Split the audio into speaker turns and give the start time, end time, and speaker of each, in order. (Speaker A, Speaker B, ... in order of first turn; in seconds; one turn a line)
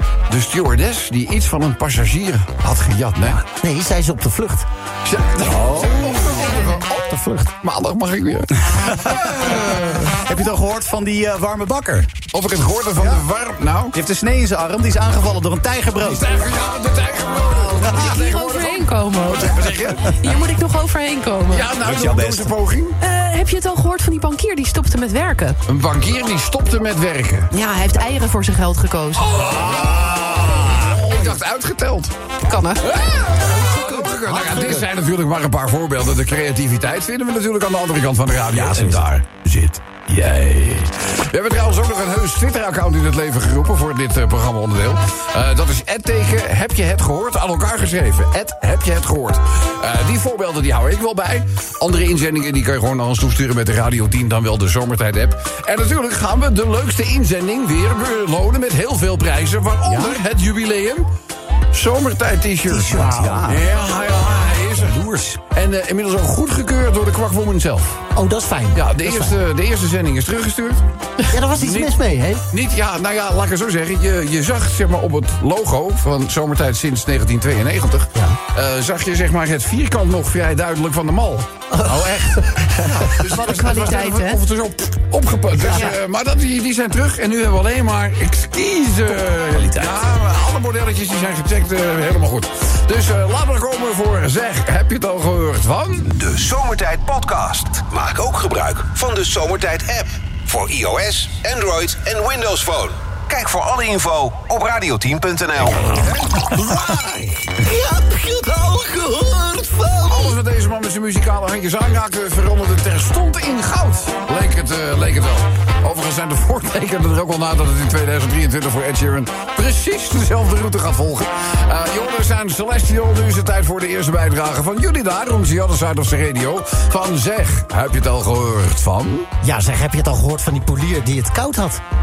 Speaker A: 0.3-3.4
Speaker B: 3.6-4.7
Speaker A: 5.0-10.2
Speaker C: 5.4-5.9
Speaker B: 6.2-6.8
Speaker C: 8.8-9.6
Speaker C: 10.2-12.1
Speaker A: 12.3-13.9
Speaker C: 13.9-16.2
Speaker A: 16.0-20.3
Speaker D: 17.8-21.7
Speaker A: 21.5-23.0
Speaker C: 21.8-22.5
Speaker D: 23.0-25.6
Speaker A: 25.6-27.5
Speaker D: 27.5-29.3
Speaker A: 29.1-32.1
Speaker C: 29.4-30.9
Speaker D: 32.4-32.8
Speaker A: 32.8-61.1
Speaker B: 33.8-34.9
Speaker C: 38.5-39.0
Speaker C: 59.9-60.2
Speaker A: 61.7-68.0
Speaker B: 62.7-63.5
Speaker C: 62.9-63.6
Speaker C: 64.8-65.4
Speaker B: 68.1-69.4
Speaker A: 68.7-70.8
Speaker B: 71.3-72.4
Speaker A: 71.5-72.0
Speaker A: 72.5-96.1
Speaker D: 83.2-84.4
Speaker B: 85.6-85.9
Speaker C: 89.5-89.9
Speaker E: 96.0-106.0
Speaker A: 105.8-107.5
Speaker B: 107.6-110.4
Speaker A: 110.0-129.3
Speaker B: 129.4-131.8